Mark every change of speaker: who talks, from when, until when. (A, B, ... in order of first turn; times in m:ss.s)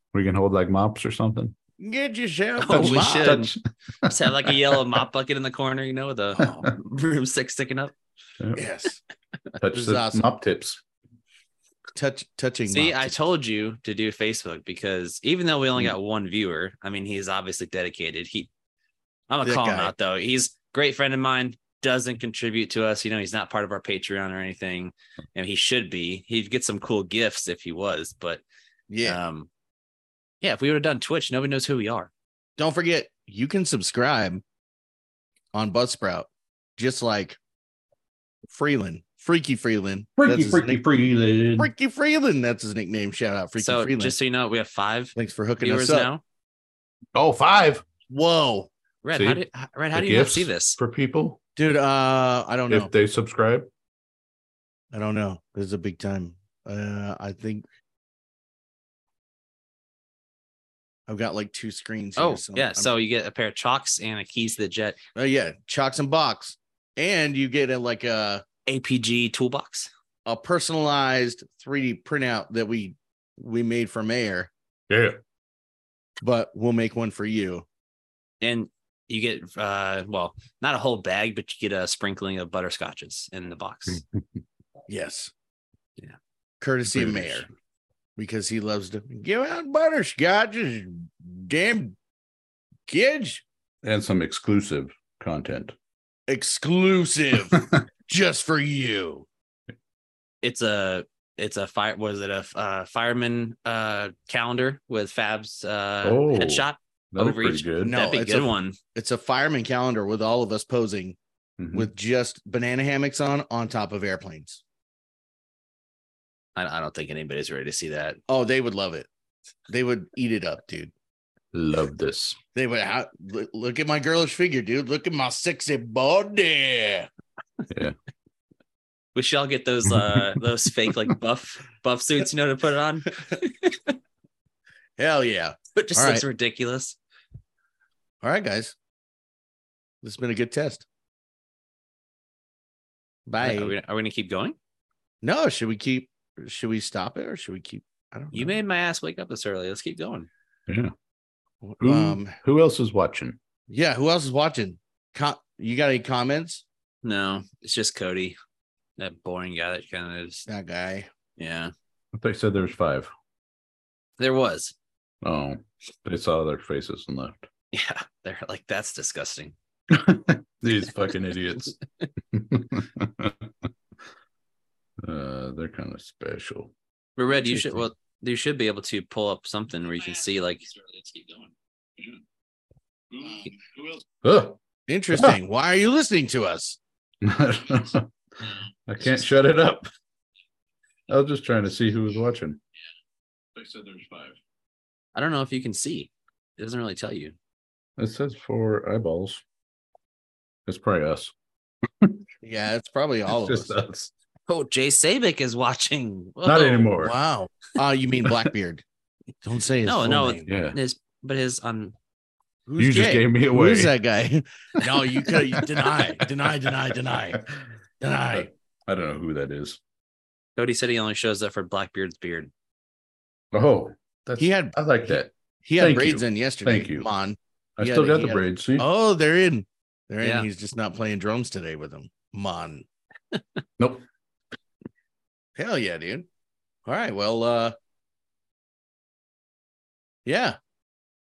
0:00.1-0:01.5 A
0:01.8-0:03.5 B
0:02.6-0:03.5 C
0:02.7-0:05.0 A
0:04.1-0:07.9 C
0:08.5-0:09.0 B
0:09.6-0:10.8 A
0:09.7-0:10.2 B
0:11.9-0:13.1 B
0:12.7-0:18.5 C
0:19.3-0:28.4 C
0:19.4-0:19.9 B
0:28.9-0:29.2 B
0:29.0-0:29.5 C
0:30.4-0:32.1 C
0:32.6-0:34.4 B
0:35.5-0:37.4 B
0:38.5-0:40.8 B
0:40.2-0:41.7 A
0:41.6-0:44.1 B
0:43.6-0:46.2 C
0:45.2-0:46.1 B
0:47.1-0:47.8 A
0:48.1-0:48.7 B
0:49.0-0:50.8 C
0:49.1-0:51.4 A
0:51.6-0:52.9 B
0:52.7-0:53.7 A
0:54.9-0:57.6 B
1:01.1-1:02.9 B
1:02.2-1:05.0 C
1:05.2-1:08.4 B
1:08.6-1:09.9 C
1:10.2-1:14.5 B
1:14.9-1:15.2 A
1:16.2-1:17.6 B
1:18.4-1:24.0 C
1:24.9-1:25.3 B
1:26.6-1:27.5 B
1:26.9-1:27.5 A
1:28.2-1:32.0 B
1:32.9-1:33.4 B
1:33.8-1:35.7 A
1:36.3-1:39.3 B
1:37.5-1:37.8 A
1:40.4-1:48.8 C
1:46.0-1:47.9 A
1:47.8-1:51.2 B
1:51.6-1:51.9 A
1:51.7-1:54.6 B
1:56.6-1:58.2 C
1:58.3-1:59.1 B
1:59.7-2:00.9 B
2:01.5-2:02.4 A
2:02.5-2:07.1 B
2:09.1-2:13.9 C
2:15.0-2:16.2 B
2:15.7-2:17.0 C
2:18.2-2:18.7 B
2:20.0-2:20.8 B
2:23.3-2:23.7 B
2:23.4-2:24.6 C
2:25.2-2:28.6 B
2:28.3-2:30.3 C
2:30.7-2:30.9 A
2:31.6-2:32.4 B
2:31.8-2:33.4 A
2:33.7-2:36.6 B
2:37.0-2:38.4 C
2:39.0-2:40.5 C
2:40.5-2:41.1 B
2:41.4-2:41.7 C
2:42.1-2:43.1 A
2:44.2-2:44.7 C
2:45.2-2:47.4 A
2:47.7-2:49.5 C
2:49.9-2:51.8 A
2:52.3-2:53.7 A
2:55.0-2:56.7 A
2:57.2-3:01.5 C
2:57.5-2:57.8 A
3:03.1-3:04.6 A
3:04.9-3:06.8 B
3:07.2-3:08.1 A
3:08.9-3:09.9 A
3:11.1-3:12.6 A
3:13.5-3:14.4 A
3:15.1-3:17.3 C
3:18.0-3:19.4 A
3:20.6-3:21.3 A
3:21.8-3:22.2 A
3:22.4-3:23.8 B
3:23.2-3:24.1 A
3:24.5-3:26.9 C
3:26.4-3:27.2 A
3:27.0-3:28.8 B
3:29.4-3:30.5 B
3:29.8-3:31.9 C
3:30.4-3:30.8 A
3:32.7-3:37.4 B
3:32.8-3:33.9 A
3:35.6-3:37.6 A
3:38.0-3:38.5 B
3:38.3-3:39.8 A
3:40.6-3:42.5 C
3:43.5-3:47.1 A
3:44.4-3:44.8 B
3:45.6-3:52.8 B
3:47.8-3:48.9 A
3:50.2-3:50.5 C
3:53.8-3:54.0 A
3:55.6-3:56.2 B
3:56.8-3:57.7 B
4:00.2-4:00.6 B